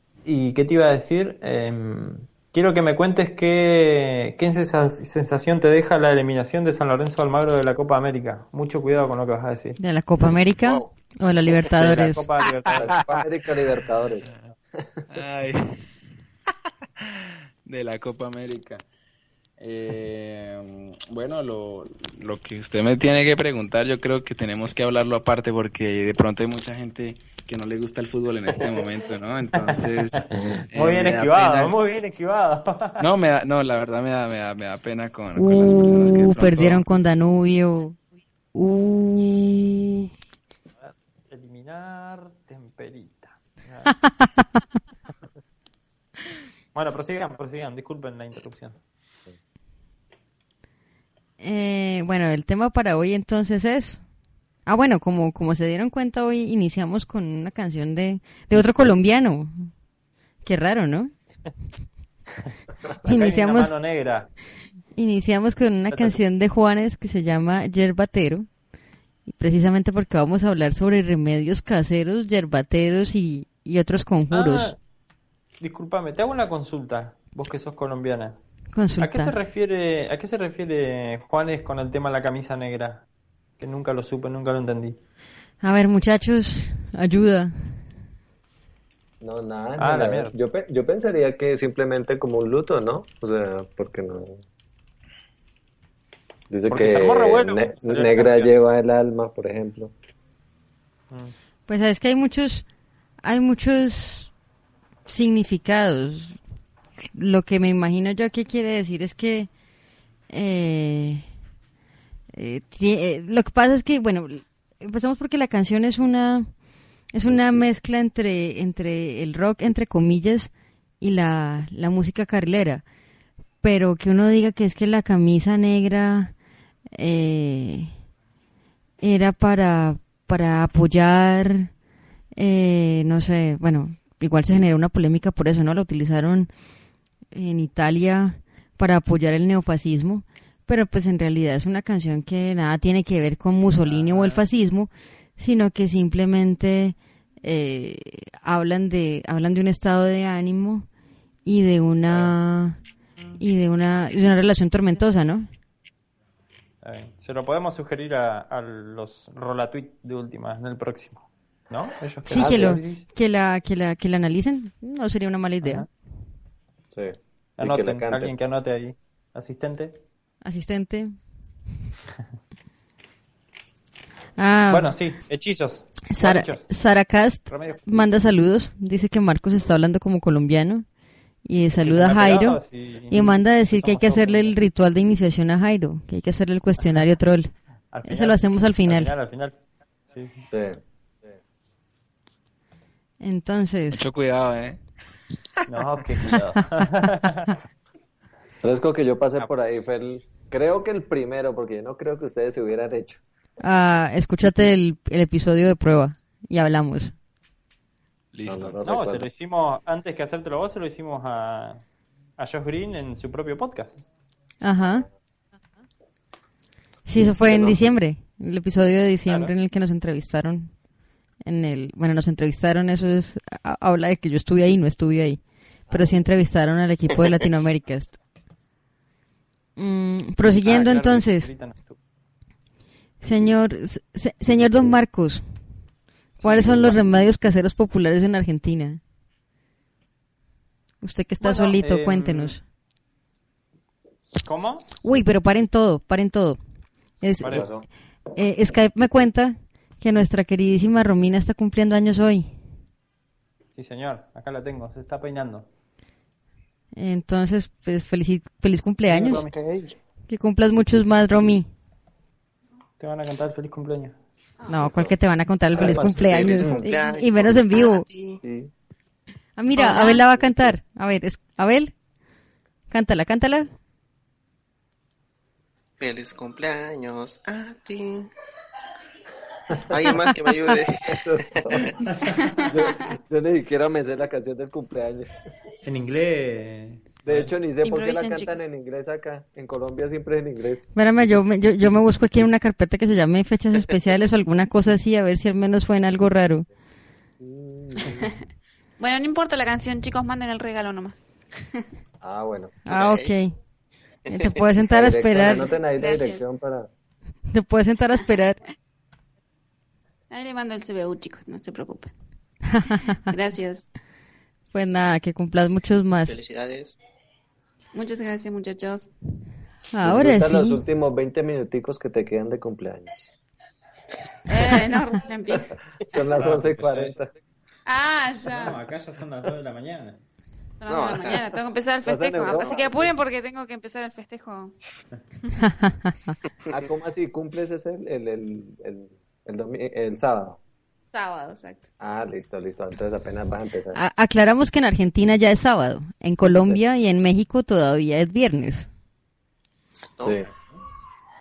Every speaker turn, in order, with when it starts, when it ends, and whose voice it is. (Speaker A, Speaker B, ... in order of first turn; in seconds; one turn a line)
Speaker A: 0.2-9.8
Speaker B: 9.8-12.2
Speaker C: 10.6-10.9
Speaker A: 11.8-13.1
Speaker D: 12.8-15.0
Speaker E: 15.1-15.8
Speaker E: 17.0-18.8
Speaker E: 19.6-31.8
Speaker A: 29.6-33.1
Speaker E: 33.0-36.9
Speaker B: 35.4-38.0
Speaker B: 38.5-40.1
Speaker A: 40.8-44.1
Speaker B: 44.1-44.5
Speaker A: 46.8-48.8
Speaker B: 51.4-54.0
Speaker B: 54.7-59.7
Speaker B: 60.4-61.1
Speaker A: 63.0-64.3
Speaker B: 63.0-63.8
Speaker B: 65.0-68.5
Speaker A: 65.9-66.2
Speaker B: 69.3-74.8
Speaker A: 74.3-74.8
Speaker A: 75.6-78.4
Speaker B: 78.7-79.4
Speaker A: 79.0-83.0
Speaker A: 83.6-85.0
Speaker B: 85.6-87.9
Speaker D: 89.2-94.4
Speaker A: 89.8-90.3
Speaker D: 96.5-99.9
Speaker A: 96.7-98.5
Speaker B: 101.7-102.7
Speaker B: 103.2-104.3
Speaker B: 105.1-106.4
Speaker B: 107.1-109.5
Speaker B: 110.3-111.3
Speaker B: 112.3-116.6
Speaker B: 117.1-122.8
Speaker B: 123.6-126.3
Speaker B: 127.0-127.9
Speaker B: 129.0-131.7
Speaker B: 132.4-136.5
Speaker B: 137.3-150.9
Speaker A: 143.8-144.4
Speaker B: 151.4-152.8
Speaker B: 153.4-155.5
Speaker A: 156.8-163.1
Speaker B: 162.2-165.9
Speaker D: 162.3-162.8
Speaker A: 165.6-165.9
Speaker D: 166.9-168.3
Speaker A: 167.6-170.0
Speaker B: 170.4-171.2
Speaker B: 174.4-174.9
Speaker A: 174.7-176.7
Speaker B: 176.1-180.9
Speaker A: 177.5-178.3
Speaker B: 181.4-187.5
Speaker A: 181.8-184.6
Speaker A: 187.9-190.5
Speaker B: 188.0-189.2
Speaker D: 190.5-190.8
Speaker B: 193.2-194.0
Speaker E: 193.9-194.8
Speaker A: 195.7-197.6
Speaker D: 198.6-203.2
Speaker B: 203.6-207.1
Speaker E: 208.3-208.8
Speaker D: 208.5-209.3
Speaker A: 208.8-211.8
Speaker A: 212.4-214.0
Speaker B: 214.6-215.1
Speaker B: 217.1-220.7
Speaker D: 217.3-217.9
Speaker B: 221.4-228.2
Speaker B: 229.8-231.5
Speaker A: 230.4-232.0
Speaker B: 233.2-235.5
Speaker B: 236.4-239.0
Speaker A: 236.4-237.0
Speaker B: 241.0-242.6
Speaker A: 241.4-242.6
Speaker A: 244.4-244.9
Speaker B: 245.0-246.6
Speaker B: 247.2-247.7
Speaker A: 247.4-247.7
Speaker D: 247.5-247.9
Speaker B: 248.4-252.6
Speaker A: 253.8-255.7
Speaker B: 257.0-259.5
Speaker A: 259.1-259.5
Speaker C: 259.6-259.9
Speaker B: 260.3-261.7
Speaker A: 263.0-264.2
Speaker B: 264.7-268.1
Speaker D: 264.8-265.1
Speaker D: 265.7-266.7
Speaker A: 265.8-266.7
Speaker C: 265.8-268.4
Speaker D: 268.4-268.7
Speaker B: 269.6-271.9
Speaker F: 269.9-270.2
Speaker D: 270.4-270.8
Speaker B: 272.9-273.7
Speaker C: 276.0-278.3
Speaker C: 279.8-281.2
Speaker D: 280.9-282.0
Speaker A: 282.0-282.4
Speaker F: 282.6-282.9
Speaker D: 282.6-285.3
Speaker A: 285.9-287.5
Speaker D: 287.3-290.9
Speaker F: 287.8-288.7
Speaker B: 290.9-296.7
Speaker D: 297.4-298.2
Speaker F: 299.0-301.9
Speaker D: 302.2-302.8
Speaker B: 302.9-303.6
Speaker C: 302.9-303.3
Speaker B: 304.3-305.8
Speaker D: 304.9-306.9
Speaker F: 305.9-306.4
Speaker B: 307.5-308.6
Speaker F: 310.3-312.1
Speaker B: 312.7-313.0
Speaker F: 313.2-313.9
Speaker B: 314.7-316.4
Speaker C: 316.3-317.0
Speaker F: 317.9-319.1
Speaker B: 319.9-320.8
Speaker D: 320.0-323.3
Speaker F: 324.5-325.8
Speaker D: 326.1-327.3
Speaker A: 326.4-327.1
Speaker F: 327.9-328.8
Speaker A: 328.5-330.2
Speaker F: 330.8-334.7
Speaker C: 330.9-331.4
Speaker D: 332.0-333.1
Speaker B: 335.6-336.3
Speaker D: 336.7-340.6
Speaker F: 341.1-341.9
Speaker D: 342.0-344.0
Speaker B: 343.9-348.9
Speaker D: 346.4-346.8
Speaker D: 350.2-350.5
Speaker A: 350.3-350.8